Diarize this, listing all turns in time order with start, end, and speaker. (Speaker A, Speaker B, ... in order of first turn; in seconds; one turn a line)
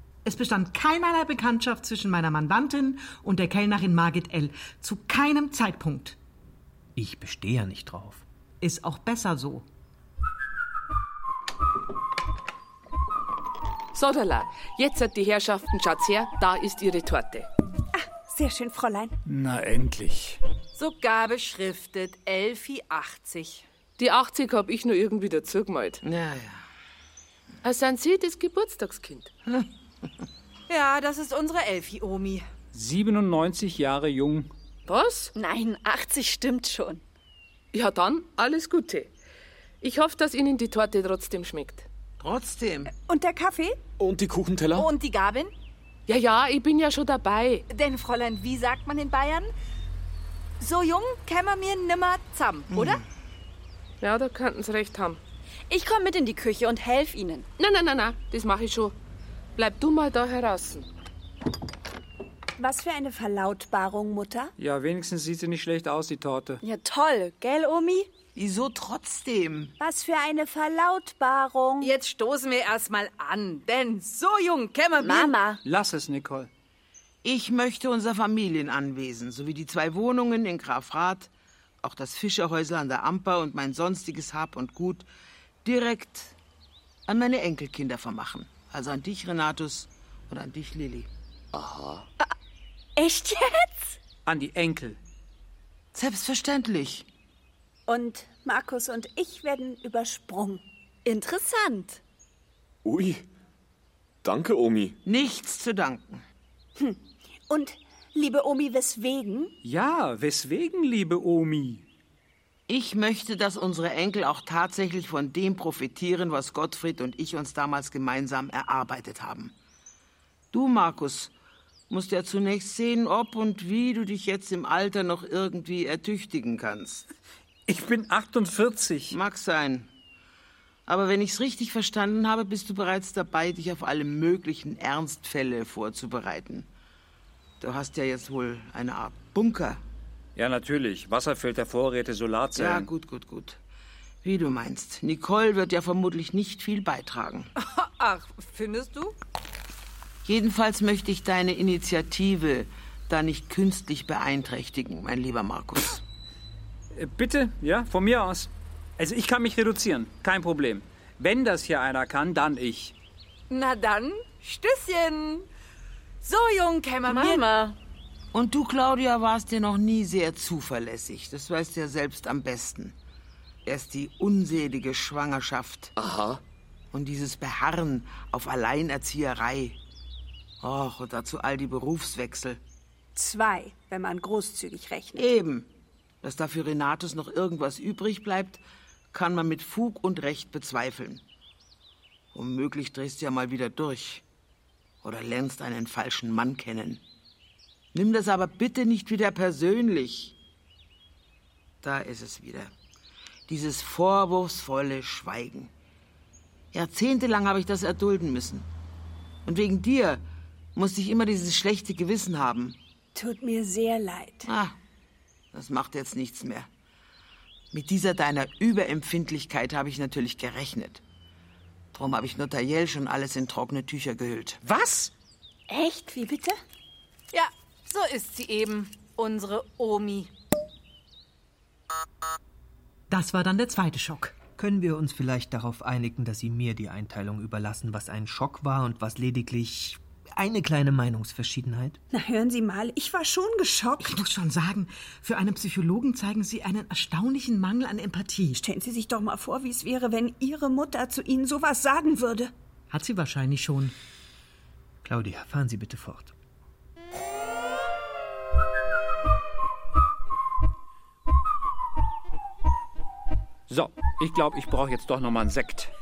Speaker A: 0.2-6.2
Speaker B: 7.0-8.2
Speaker A: 8.6-9.7
Speaker C: 13.9-17.5
Speaker D: 17.9-19.2
Speaker E: 19.3-20.4
Speaker F: 20.8-23.6
Speaker C: 24.0-26.0
Speaker G: 26.0-26.6
Speaker C: 27.6-29.3
Speaker F: 30.7-32.5
Speaker E: 32.7-34.5
Speaker C: 34.9-35.3
Speaker H: 35.4-37.0
Speaker C: 37.7-39.1
Speaker C: 39.8-41.9
Speaker G: 42.2-42.9
Speaker D: 43.0-43.8
Speaker I: 44.0-44.9
Speaker F: 44.8-45.5
Speaker C: 46.1-47.6
Speaker F: 47.7-49.5
Speaker F: 50.6-53.0
Speaker G: 52.7-53.0
Speaker C: 54.0-55.2
Speaker H: 55.7-57.5
Speaker C: 57.6-58.9
Speaker C: 59.6-60.9
Speaker D: 62.6-64.5
Speaker E: 64.6-66.6
Speaker H: 66.6-68.1
Speaker G: 68.4-69.8
Speaker D: 69.8-71.9
Speaker F: 71.8-75.4
Speaker H: 75.0-75.6
Speaker E: 75.6-76.5
Speaker G: 77.2-81.3
Speaker G: 81.8-85.1
Speaker G: 85.6-86.3
Speaker G: 87.1-91.1
Speaker I: 91.5-92.1
Speaker H: 93.0-94.0
Speaker E: 94.3-95.0
Speaker G: 95.9-97.1
Speaker D: 97.9-100.6
Speaker H: 101.0-102.0
Speaker I: 102.8-103.2
Speaker I: 104.2-105.0
Speaker G: 105.0-106.2
Speaker D: 106.8-109.5
Speaker E: 109.6-111.8
Speaker G: 112.7-119.5
Speaker G: 120.5-121.3
Speaker G: 121.9-127.1
Speaker E: 127.7-129.2
Speaker G: 129.1-129.9
Speaker G: 130.9-136.7
Speaker G: 137.6-139.8
Speaker E: 140.4-142.9
Speaker G: 142.6-143.6
Speaker G: 144.2-147.5
Speaker F: 147.6-149.2
Speaker G: 150.2-156.0
Speaker E: 156.9-162.9
Speaker F: 163.5-165.5
Speaker F: 166.2-167.5
Speaker H: 167.1-167.8
Speaker G: 168.3-173.0
Speaker G: 173.7-175.9
Speaker I: 176.0-176.4
Speaker G: 176.9-179.8
Speaker G: 180.6-182.6
Speaker D: 183.2-185.3
Speaker G: 185.2-185.7
Speaker G: 186.2-188.6
Speaker G: 189.1-191.2
Speaker G: 192.3-194.2
Speaker G: 195.0-197.0
Speaker G: 197.9-200.3
Speaker G: 201.8-202.7
Speaker G: 203.5-205.7
Speaker G: 206.7-208.7
Speaker G: 209.5-210.2
Speaker G: 210.8-212.8
Speaker D: 213.2-214.5
Speaker G: 214.4-214.8
Speaker G: 215.5-216.7
Speaker G: 217.7-221.0
Speaker G: 221.9-224.6
Speaker E: 224.7-225.1
Speaker D: 225.7-226.6
Speaker F: 227.3-230.3
Speaker A: 233.1-234.4
Speaker B: 234.6-242.0
Speaker D: 242.1-244.3
Speaker A: 244.0-248.6
Speaker D: 248.6-252.5
Speaker A: 252.9-253.9
Speaker B: 255.0-256.3
Speaker E: 263.7-265.9